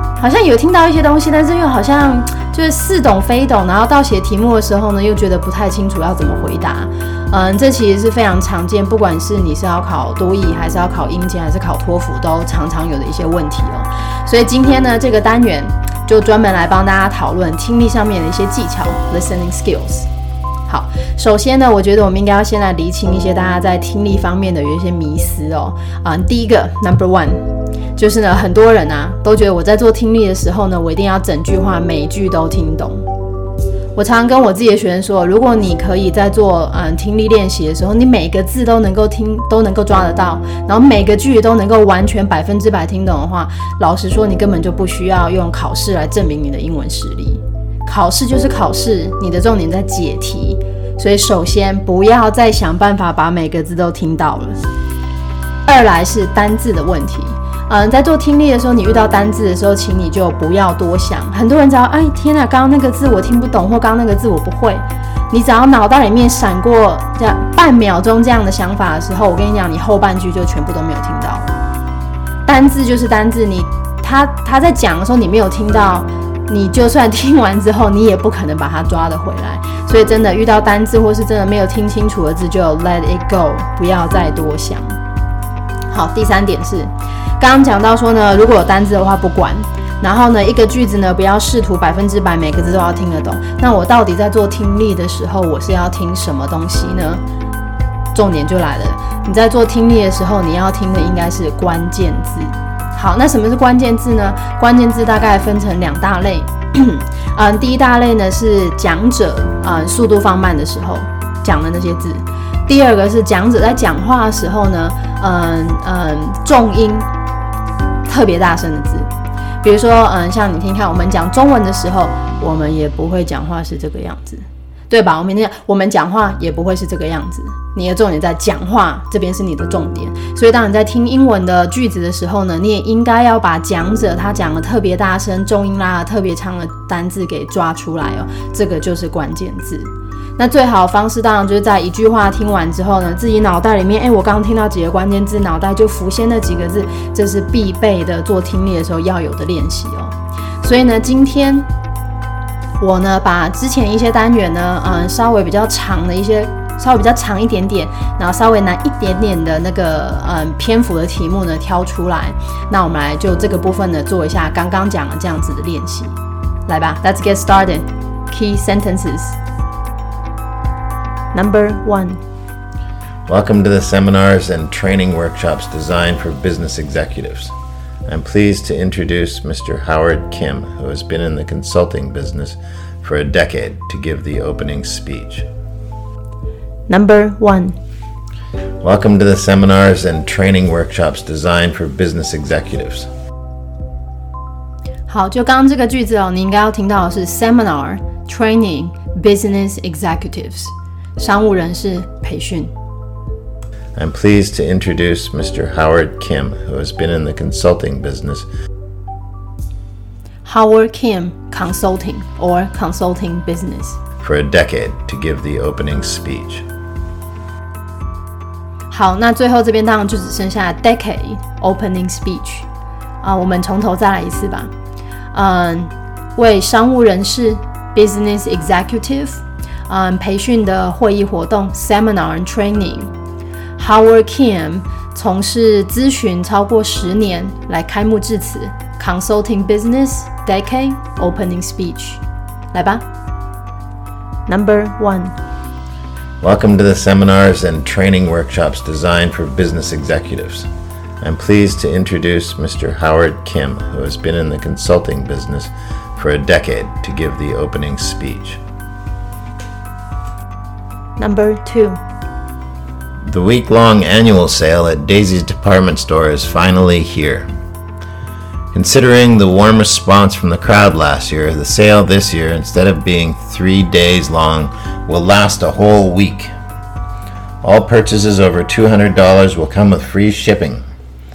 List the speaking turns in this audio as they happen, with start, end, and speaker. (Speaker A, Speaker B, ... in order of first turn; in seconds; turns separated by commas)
Speaker A: 0.2-20.1, Speaker A: 20.7-27.4, Speaker A: 28.0-33.0, Speaker A: 34.0-54.6, Speaker A: 55.6-71.6, Speaker A: 72.5-84.9, Speaker A: 85.9-97.2, Speaker A: 98.1-117.1, Speaker A: 118.0-119.1, Speaker A: 119.6-151.7, Speaker A: 152.8-169.4, Speaker A: 171.3-172.2, Speaker B: 173.3-177.5, Speaker B: 178.1-185.5, Speaker A: 186.9-187.7, Speaker B: 188.8-193.1, Speaker A: 195.1-202.7, Speaker B: 203.9-208.5, Speaker A: 210.4-214.0, Speaker B: 214.2-216.6, Speaker A: 218.9-222.7, Speaker A: 223.2-224.7, Speaker A: 225.3-233.1, Speaker A: 233.8-242.2, Speaker A: 242.7-243.0, Speaker A: 244.5-245.3, Speaker B: 246.4-250.7, Speaker B: 251.2-258.6, Speaker A: 261.2-262.0, Speaker B: 263.2-267.5, Speaker B: 268.7-276.5, Speaker B: 277.6-280.8